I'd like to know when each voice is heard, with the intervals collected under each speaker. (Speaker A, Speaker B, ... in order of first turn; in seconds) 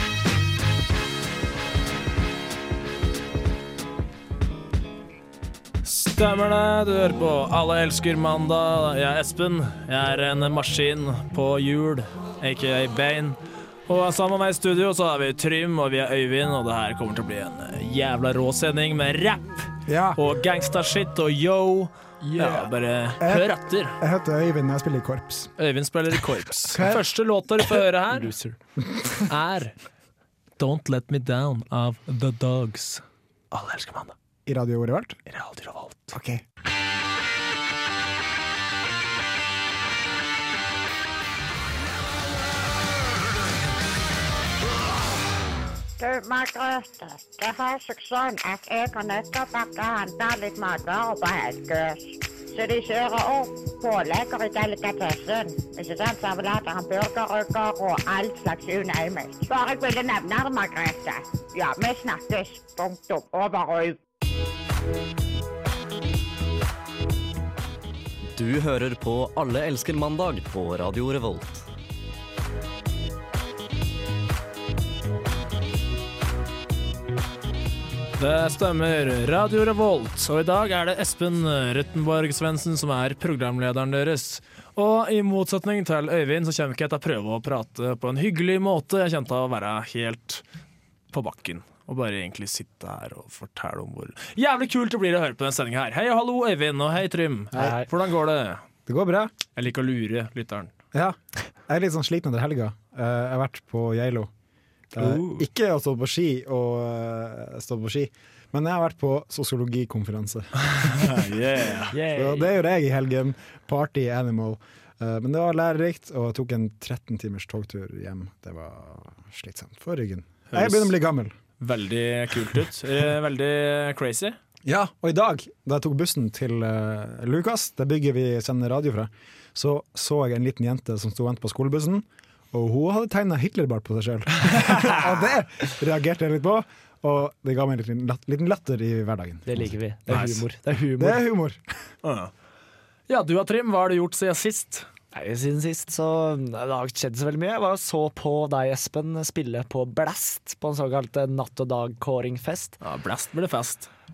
Speaker A: 5.8-24.0, 25.6-28.3, 29.3-29.8, 30.6-34.1, 35.3-36.1, 78.2-90.4, 91.1-98.6, 99.6-100.7, 105.0-105.4, 110.6-112.0, 120.5-120.9, 121.6-124.4, 140.1-140.4, 142.0-142.3, 143.1-144.9, 152.8-153.9
Speaker B: 19.9-20.2, 23.2-25.5, 26.7-27.0, 34.5-35.2, 36.1-36.4, 98.9-99.3, 100.9-104.3, 104.9-111.3, 112.1-121.3, 124.7-139.7, 141.0-141.6
Speaker C: 22.2-22.7, 28.1-28.6, 97.5-97.9, 111.9-112.5, 139.5-141.2, 145.1-152.8
Speaker D: 46.0-64.0
Speaker E: 68.3-71.7